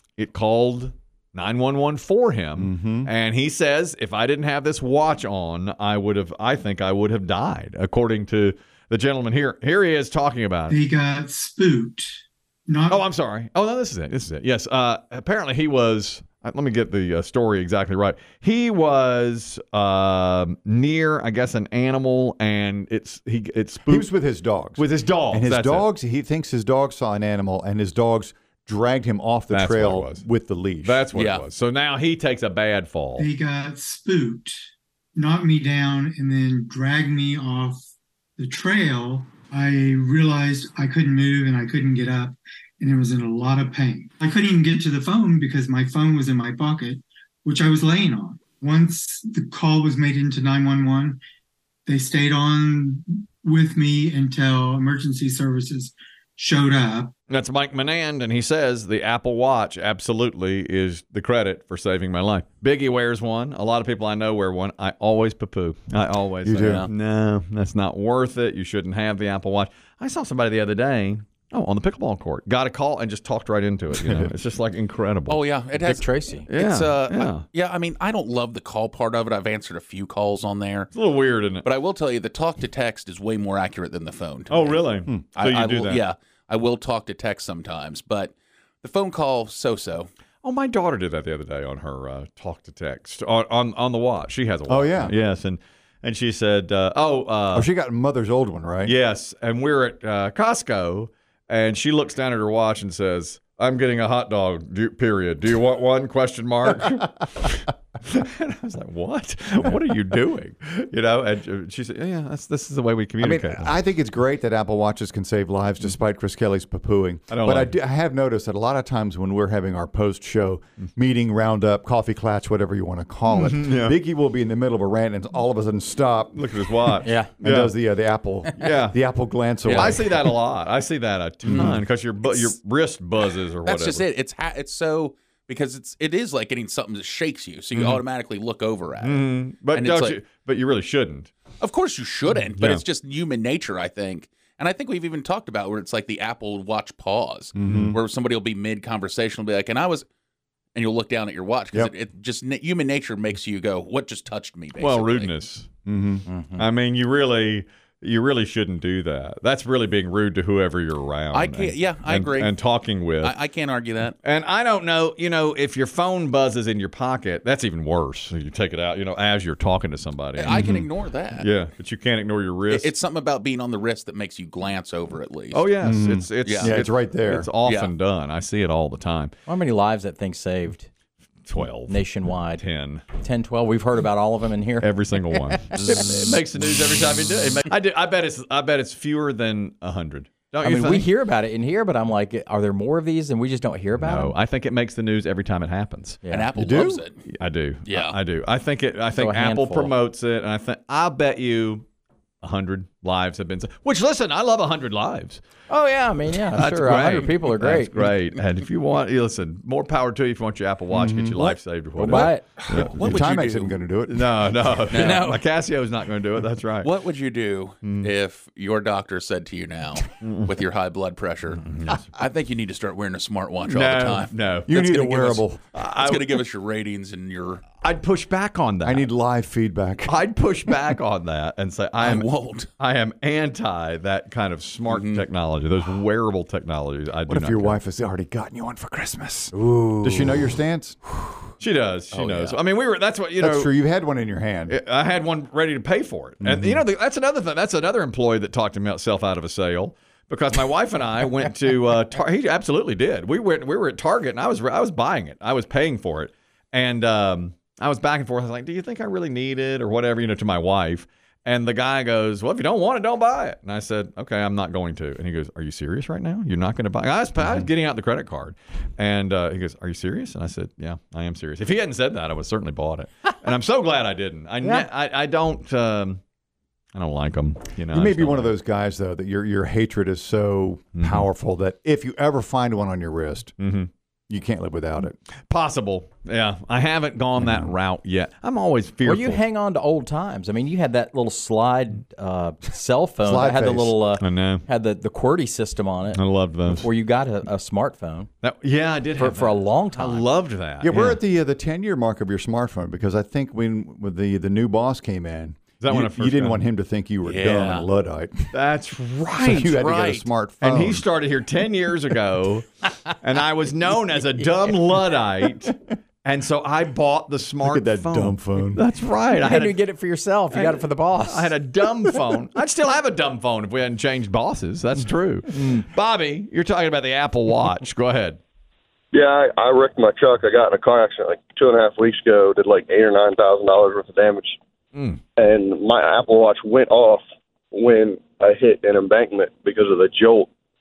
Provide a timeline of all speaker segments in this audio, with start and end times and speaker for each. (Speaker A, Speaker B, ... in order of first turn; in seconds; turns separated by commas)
Speaker A: 0.2-10.8, Speaker B: 2.6-3.1, Speaker C: 10.7-12.1, Speaker C: 12.7-13.1, Speaker A: 12.9-24.1, Speaker B: 23.9-31.0, Speaker A: 24.8-25.9, Speaker A: 29.5-30.2, Speaker A: 30.8-33.3, Speaker D: 31.1-31.4, Speaker C: 33.2-34.5, Speaker C: 35.1-37.8, Speaker C: 38.4-51.2, Speaker C: 51.9-57.1, Speaker A: 57.3-75.4, Speaker B: 66.4-66.9, Speaker D: 66.6-66.9, Speaker B: 74.0-74.3, Speaker D: 75.3-80.9, Speaker E: 75.8-76.5, Speaker A: 76.5-77.5, Speaker A: 80.9-81.6, Speaker D: 81.6-90.1, Speaker A: 84.5-86.0, Speaker A: 90.4-97.7, Speaker B: 94.7-95.1, Speaker B: 97.5-98.9, Speaker A: 98.8-113.7, Speaker B: 113.2-130.3, Speaker A: 117.3-117.7, Speaker A: 123.3-123.9, Speaker A: 126.3-127.7, Speaker E: 127.0-127.4, Speaker A: 128.6-129.0, Speaker D: 129.6-130.1, Speaker A: 129.7-134.1, Speaker D: 131.4-132.5, Speaker B: 131.5-131.8, Speaker D: 133.6-140.2, Speaker A: 137.7-138.0, Speaker A: 139.0-141.3, Speaker D: 141.6-150.1, Speaker A: 142.6-142.8, Speaker B: 147.5-148.0, Speaker A: 147.7-147.9, Speaker D: 150.7-155.3, Speaker A: 154.8-155.7, Speaker B: 155.8-156.2, Speaker E: 156.3-156.6, Speaker A: 156.5-163.3, Speaker D: 161.3-164.2, Speaker A: 164.2-170.7, Speaker D: 170.3-171.5, Speaker B: 170.5-170.9, Speaker A: 171.4-172.9, Speaker D: 172.7-175.7, Speaker A: 175.5-179.3, Speaker B: 175.8-177.5, Speaker D: 176.4-176.8, Speaker D: 177.6-177.9, Speaker E: 179.5-180.9, Speaker A: 181.4-182.0, Speaker E: 181.8-185.8, Speaker A: 182.5-183.0, Speaker A: 184.8-191.1, Speaker E: 190.6-194.3, Speaker A: 194.0-196.2, Speaker E: 196.2-196.5, Speaker D: 196.3-197.2, Speaker B: 196.5-197.0, Speaker A: 197.3-201.8, Speaker D: 197.8-198.2, Speaker E: 199.1-199.9, Speaker A: 202.4-205.4, Speaker E: 205.7-208.0, Speaker A: 206.5-213.1, Speaker B: 210.9-211.6, Speaker E: 211.9-212.6, Speaker D: 212.6-213.8, Speaker B: 212.9-214.5, Speaker A: 214.1-216.9, Speaker D: 214.9-215.4, Speaker E: 215.0-215.3, Speaker D: 216.8-224.3, Speaker A: 217.8-218.1, Speaker A: 220.2-220.5, Speaker A: 221.6-222.1, Speaker A: 223.7-226.4, Speaker B: 224.7-225.6, Speaker D: 224.9-225.4, Speaker D: 225.9-227.6, Speaker A: 227.8-229.1, Speaker B: 228.8-230.2, Speaker A: 230.1-237.8, Speaker B: 230.7-230.9, Speaker D: 232.0-232.7, Speaker D: 234.9-235.2, Speaker B: 237.3-241.0, Speaker A: 240.0-240.5, Speaker A: 241.6-243.7, Speaker D: 242.1-242.6, Speaker B: 243.4-244.8, Speaker A: 244.7-276.2, Speaker B: 246.4-246.8, Speaker B: 267.4-267.7, Speaker A: 276.9-278.5, Speaker B: 277.9-283.5, Speaker A: 281.0-281.2, Speaker A: 283.6-283.9, Speaker B: 284.3-285.1, Speaker A: 285.5-289.4, Speaker B: 287.4-287.7, Speaker E: 289.0-298.3, Speaker B: 293.2-293.9, Speaker A: 294.2-294.6, Speaker A: 296.1-296.9, Speaker A: 298.4-301.2, Speaker E: 299.1-300.3, Speaker B: 300.8-308.5, Speaker A: 305.8-306.6, Speaker D: 307.2-307.9, Speaker A: 308.5-309.7, Speaker D: 309.4-310.3, Speaker B: 309.4-311.1, Speaker A: 310.6-319.7, Speaker B: 317.6-318.8, Speaker E: 319.3-322.2, Speaker A: 320.5-328.4, Speaker F: 329.1-334.6, Speaker A: 334.9-335.2, Speaker F: 335.4-340.5